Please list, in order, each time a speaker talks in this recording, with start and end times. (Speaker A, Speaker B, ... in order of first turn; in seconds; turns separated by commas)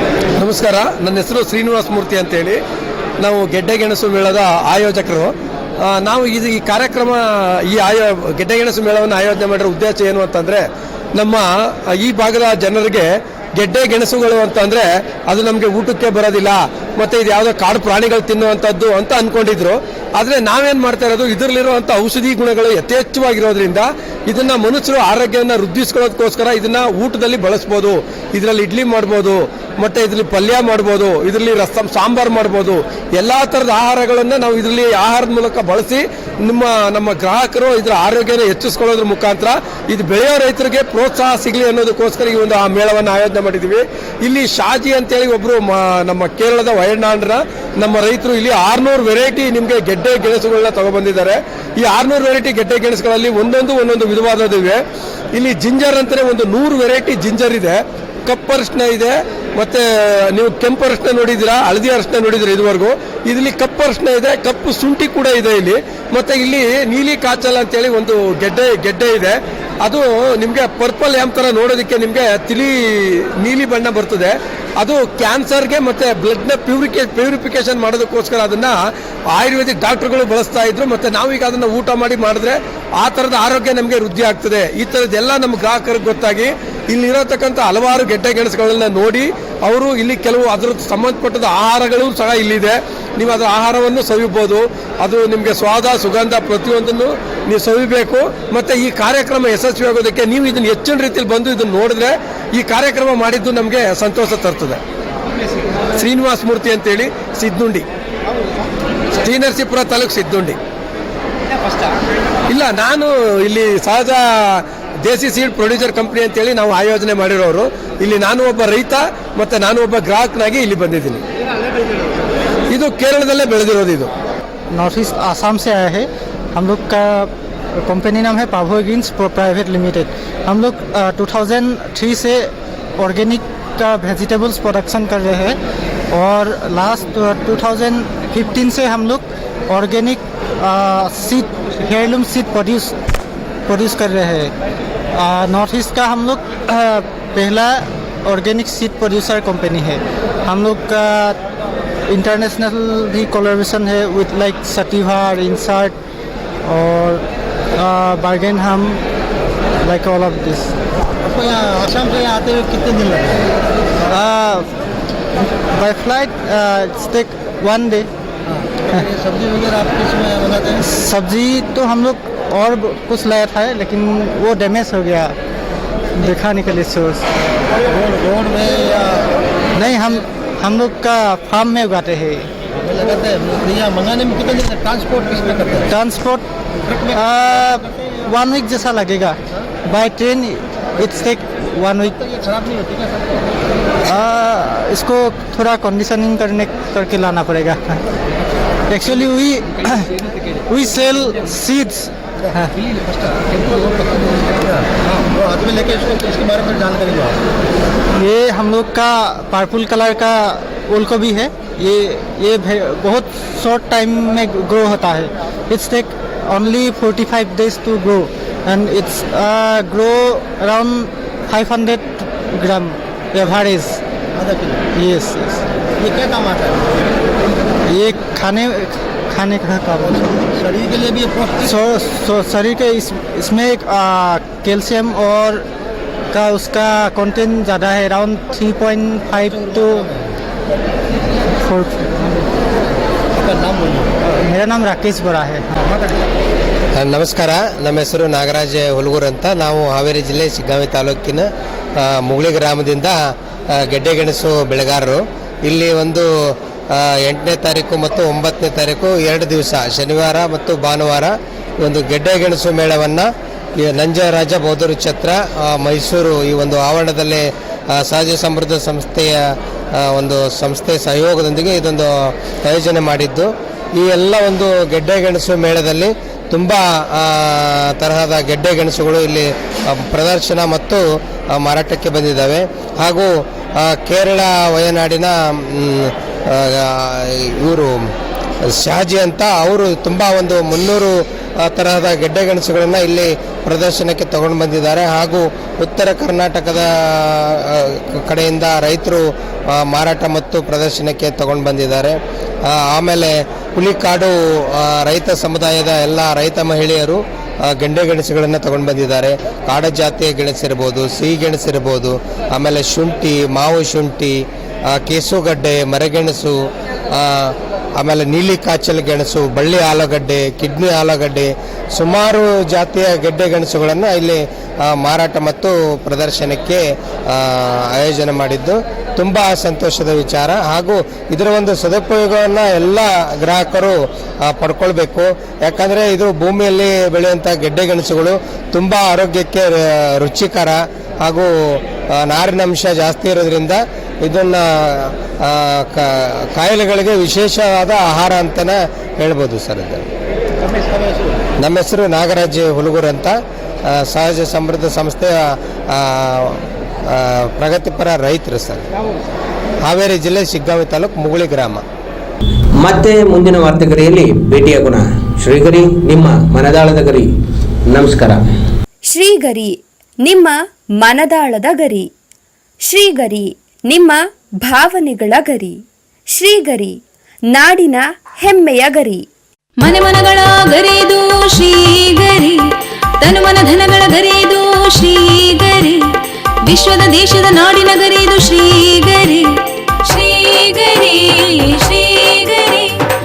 Speaker A: 0.4-2.6, Speaker A: 3.2-10.6, Speaker A: 11.2-54.8, Speaker A: 55.4-78.8, Speaker A: 79.3-104.8, Speaker A: 106.0-107.8, Speaker A: 109.2-110.6, Speaker A: 112.5-121.2, Speaker A: 122.7-124.1, Speaker B: 124.7-127.3, Speaker B: 127.8-135.6, Speaker B: 136.1-143.0, Speaker B: 143.7-144.5, Speaker B: 145.1-151.4, Speaker B: 152.1-156.0, Speaker B: 156.7-157.2, Speaker B: 157.8-159.0, Speaker B: 159.8-160.8, Speaker C: 161.3-163.5, Speaker B: 164.1-164.7, Speaker B: 165.7-168.1, Speaker C: 168.9-170.8, Speaker B: 170.8-175.3, Speaker B: 176.2-177.3, Speaker C: 177.9-179.3, Speaker B: 179.8-182.5, Speaker C: 182.8-185.9, Speaker B: 185.9-186.4, Speaker B: 187.1-192.2, Speaker C: 192.4-193.4, Speaker B: 194.0-198.0, Speaker B: 198.9-200.1, Speaker B: 200.7-202.7, Speaker C: 203.3-207.4, Speaker B: 208.1-224.0, Speaker C: 224.4-224.8, Speaker B: 225.0-225.6, Speaker C: 226.0-227.1, Speaker B: 227.9-230.2, Speaker C: 230.2-231.6, Speaker B: 231.6-235.7, Speaker B: 236.3-240.1, Speaker B: 241.6-242.1, Speaker C: 243.4-244.2, Speaker B: 244.4-245.7, Speaker D: 247.0-251.4, Speaker D: 252.0-253.2, Speaker D: 253.8-256.3, Speaker D: 256.9-263.3, Speaker D: 263.8-269.4, Speaker D: 270.0-281.0, Speaker D: 281.6-287.9, Speaker D: 288.8-350.0, Speaker D: 351.6-353.4, Speaker D: 353.9-355.4, Speaker D: 355.9-358.9, Speaker D: 359.9-361.8, Speaker E: 362.8-367.3, Speaker E: 367.9-368.4, Speaker F: 369.1-372.1, Speaker F: 372.9-379.3, Speaker G: 379.8-382.6, Speaker G: 383.2-386.0, Speaker G: 386.7-389.5, Speaker G: 390.1-393.0